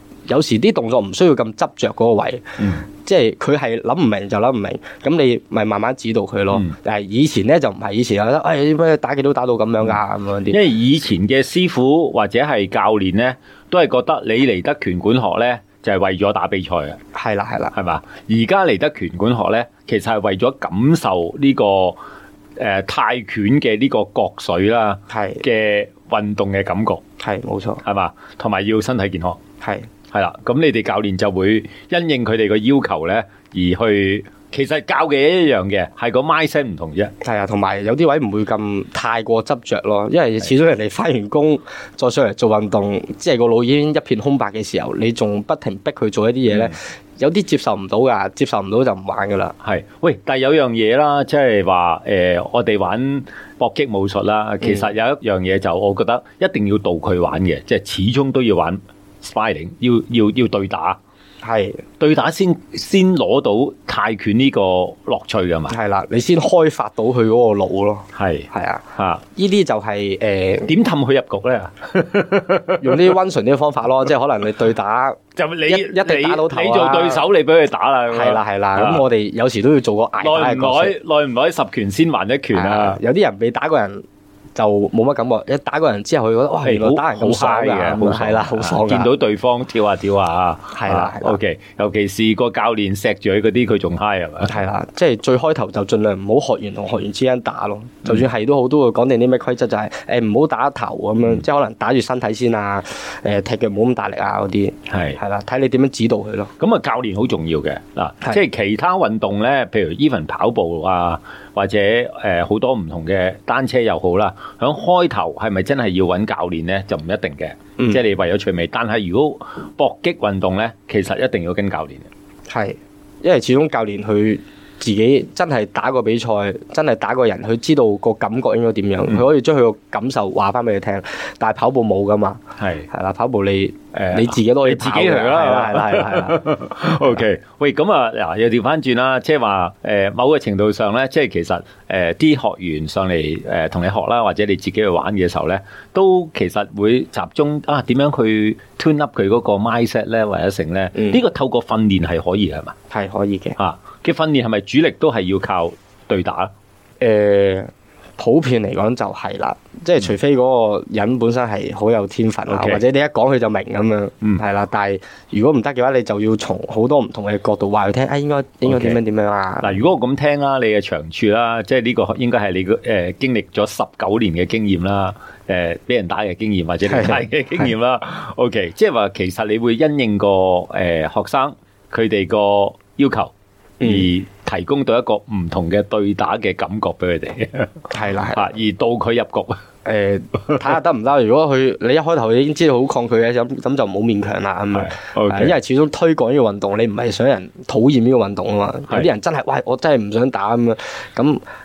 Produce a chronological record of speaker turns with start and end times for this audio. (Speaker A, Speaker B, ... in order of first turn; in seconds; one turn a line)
Speaker A: 0.3-10.6
Speaker B: 2.6-2.8
Speaker B: 10.5-17.0
Speaker A: 17.1-17.7
Speaker B: 17.7-22.0
Speaker B: 22.6-27.0
Speaker A: 25.1-25.4
Speaker A: 27.2-27.8
Speaker B: 27.8-29.4
Speaker A: 29.6-29.9
Speaker B: 30.1-37.1
Speaker A: 37.2-49.5
Speaker B: 46.5-46.8
Speaker B: 49.6-61.0
Speaker A: 54.6-54.9
Speaker A: 61.4-61.8
Speaker B: 62.0-65.8
Speaker A: 65.7-70.7
Speaker B: 68.1-69.2
Speaker B: 70.7-73.2
Speaker A: 72.8-77.2
Speaker B: 75.4-79.0
Speaker A: 78.1-81.0
Speaker B: 80.2-83.0
Speaker A: 82.5-84.0
Speaker A: 84.6-89.1
Speaker B: 86.6-94.6
Speaker A: 90.7-91.4
Speaker A: 94.5-106.5
Speaker B: 104.9-105.2
Speaker B: 106.6-122.1
Speaker A: 122.5-136.5
Speaker B: 132.6-132.9
Speaker B: 133.9-152.8
Speaker A: 150.9-151.2
Speaker A: 152.9-153.6
Speaker B: 153.6-156.5
Speaker A: 157.0-169.8
Speaker B: 162.5-162.8
Speaker B: 168.7-169.0
Speaker B: 169.6-189.6
Speaker A: 176.9-177.7
Speaker A: 183.8-184.1
Speaker A: 187.9-188.4
Speaker A: 189.8-201.4
Speaker B: 194.7-195.6